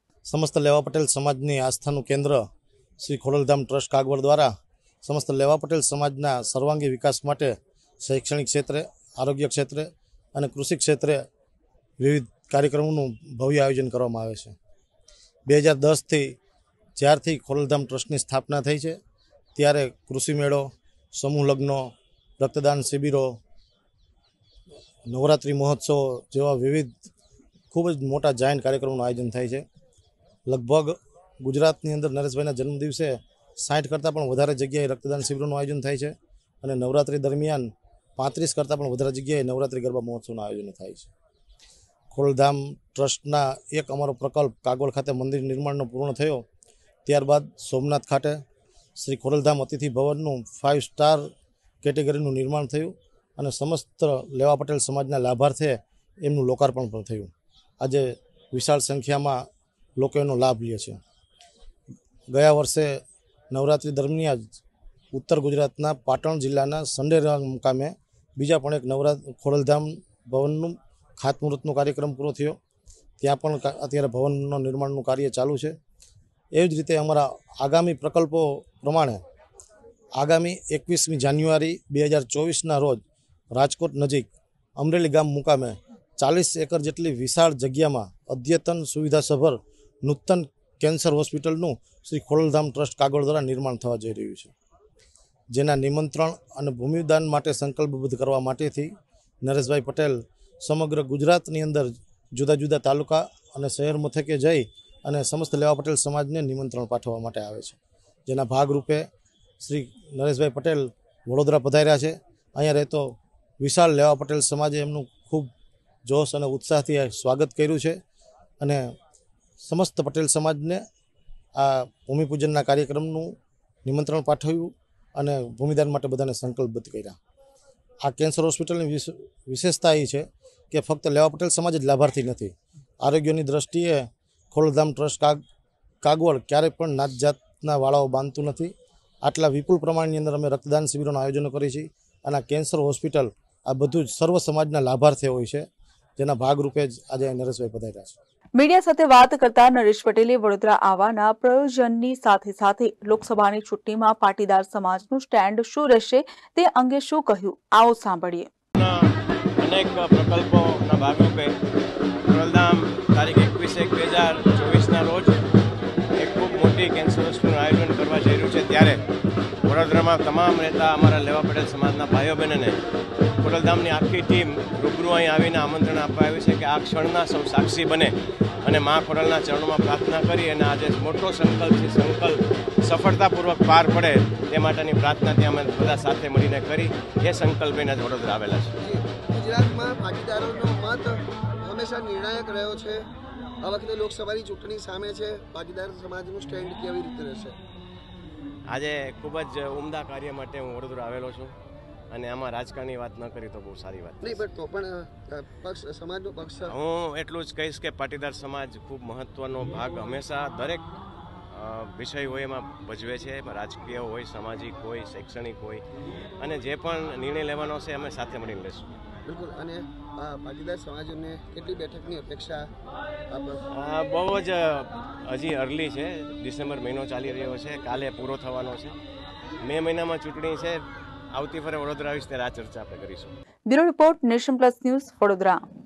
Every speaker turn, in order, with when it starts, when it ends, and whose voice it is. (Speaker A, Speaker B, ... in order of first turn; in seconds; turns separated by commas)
Speaker A: 0.3-2.4, Speaker A: 3.0-4.5, Speaker A: 5.0-11.2, Speaker A: 12.0-14.6, Speaker A: 15.5-16.4, Speaker A: 17.0-19.0, Speaker A: 19.6-23.4, Speaker A: 25.1-27.0, Speaker A: 27.7-29.6, Speaker A: 30.5-41.1, Speaker A: 42.1-46.4, Speaker A: 47.0-48.4, Speaker A: 49.0-51.3, Speaker A: 51.8-59.5, Speaker A: 60.0-61.0, Speaker A: 62.3-64.5, Speaker A: 65.1-72.6, Speaker A: 73.2-75.8, Speaker A: 76.5-79.2, Speaker A: 80.2-83.0, Speaker A: 83.5-94.5, Speaker A: 95.5-109.0, Speaker A: 109.6-115.5, Speaker A: 116.0-118.0, Speaker A: 118.6-118.9, Speaker A: 119.6-120.8, Speaker A: 121.6-127.2, Speaker A: 128.0-135.4, Speaker A: 136.0-138.7, Speaker A: 139.2-145.7, Speaker A: 146.2-148.2, Speaker B: 148.6-158.5, Speaker C: 158.8-161.6, Speaker C: 162.2-165.4, Speaker C: 166.2-169.0, Speaker C: 169.7-172.8, Speaker C: 173.4-188.7, Speaker D: 188.8-193.1, Speaker D: 193.6-197.6, Speaker C: 198.7-201.5, Speaker C: 202.1-204.4, Speaker D: 204.2-206.8, Speaker C: 206.7-210.8, Speaker C: 211.5-215.8, Speaker C: 216.4-218.9, Speaker D: 219.3-222.7, Speaker D: 223.3-223.6, Speaker C: 223.7-229.0, Speaker C: 229.6-233.3, Speaker B: 233.7-235.6